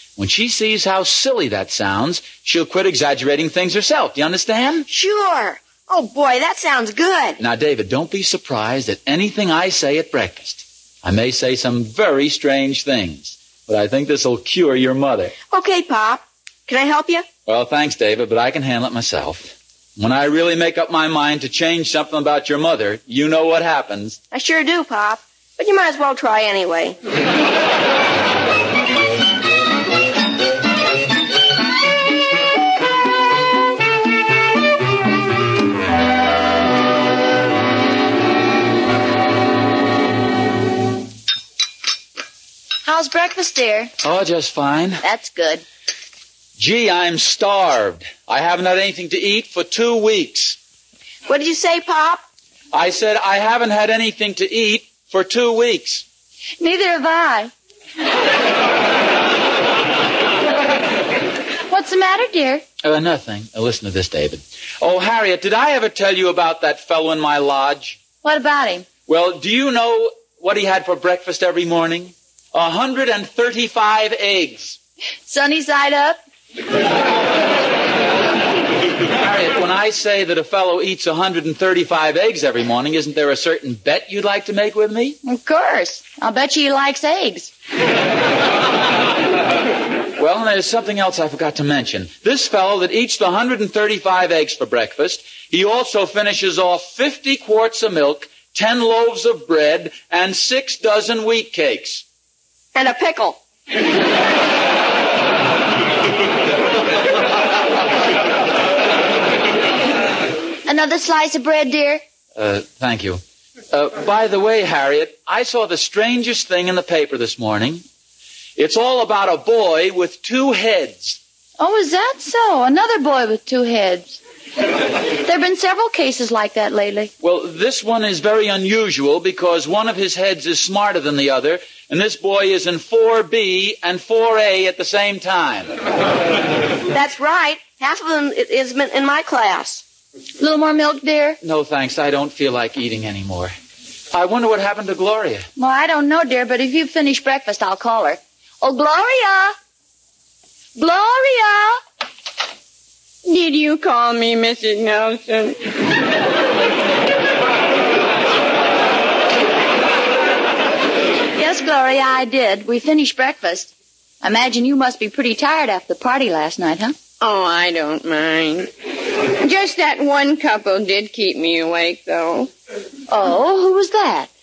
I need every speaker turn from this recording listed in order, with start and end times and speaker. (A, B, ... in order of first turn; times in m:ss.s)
0:00.2-0:04.8 A
0:04.9-0:07.4 B
0:07.4-0:15.3 A
0:15.4-0:17.2 B
0:17.4-0:24.2 A
0:24.3-0:27.0 B
0:42.8-0:43.9 C
0:44.0-0:45.0 A
0:45.0-0:45.6 C
0:46.6-0:50.6 A
0:51.3-0:52.2 B
0:52.7-0:56.0 A
0:56.6-0:57.5 C
1:01.7-1:02.6 C
1:02.8-1:08.1 A
1:08.2-1:08.9 C
1:09.0-1:14.8 A
1:15.2-1:16.2 C
1:19.2-1:25.2 A
1:25.2-1:27.5 C
1:30.2-1:42.0 A
1:42.7-1:43.4 B
1:50.6-1:52.0 C
1:52.4-1:57.8 A
1:58.6-2:01.2 A
2:01.6-2:04.2 C
2:05.2-2:07.1 C
2:07.2-2:15.7 A
2:16.9-2:19.8 B
2:20.4-2:21.4 C
2:21.4-2:23.5 A
2:24.1-2:25.4 A
2:25.6-2:29.6 C
2:30.8-2:31.8 C
2:33.2-2:35.6 D
2:41.4-2:43.7 C
2:44.2-2:47.0 C
2:47.2-2:48.7 D
2:49.4-2:52.5 D
2:53.1-2:54.3 C